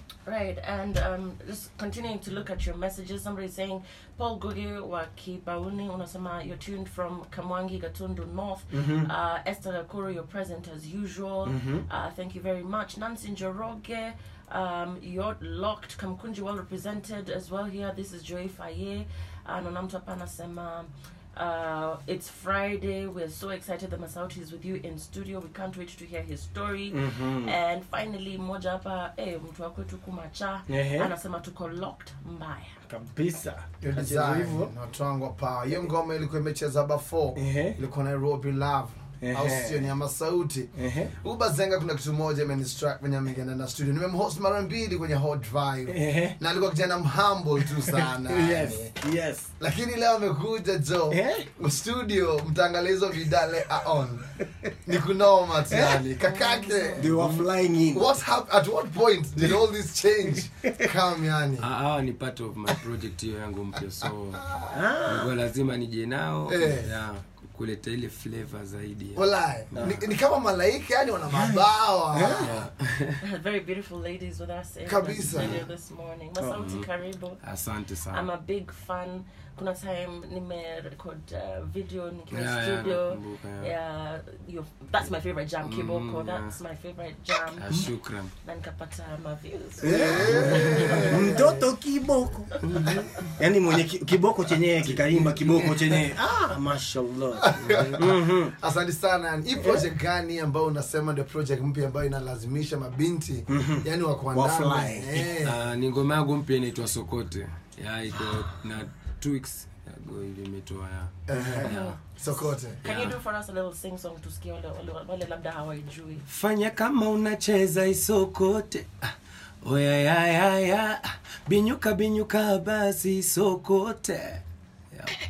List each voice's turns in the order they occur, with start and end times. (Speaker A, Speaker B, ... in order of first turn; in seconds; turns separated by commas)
Speaker A: 0.3-32.8, Speaker B: 8.7-9.1, Speaker B: 11.5-11.8, Speaker B: 26.9-27.6, Speaker B: 30.7-31.1, Speaker B: 32.9-34.7, Speaker C: 33.8-48.9, Speaker B: 37.4-37.8, Speaker B: 39.2-39.8, Speaker B: 40.8-41.1, Speaker B: 45.9-46.4, Speaker B: 48.0-49.5, Speaker C: 49.6-54.3, Speaker B: 51.1-51.5, Speaker C: 54.8-61.7, Speaker B: 55.7-56.0, Speaker A: 56.2-57.1, Speaker B: 57.0-58.1, Speaker D: 61.6-64.5, Speaker C: 64.4-64.7, Speaker B: 64.7-65.3, Speaker D: 65.1-70.1, Speaker C: 66.5-66.9, Speaker C: 69.2-72.7, Speaker B: 71.3-72.5, Speaker D: 72.4-73.2, Speaker A: 73.2-77.4, Speaker C: 74.8-75.6, Speaker D: 75.3-75.6, Speaker D: 76.6-76.8, Speaker D: 77.4-78.3, Speaker A: 78.1-87.8, Speaker D: 82.3-83.7, Speaker D: 85.6-86.5, Speaker D: 87.6-88.3, Speaker A: 88.4-91.5, Speaker B: 89.8-92.6, Speaker C: 89.8-91.7, Speaker D: 90.5-91.1, Speaker D: 92.6-93.3, Speaker B: 93.4-98.5, Speaker C: 95.1-95.8, Speaker C: 97.3-105.6, Speaker D: 97.5-98.0, Speaker B: 103.5-105.3, Speaker D: 105.4-111.1, Speaker C: 111.3-112.8, Speaker B: 111.4-111.8, Speaker A: 111.6-116.2, Speaker D: 112.8-113.2, Speaker D: 116.3-119.1, Speaker D: 119.6-125.2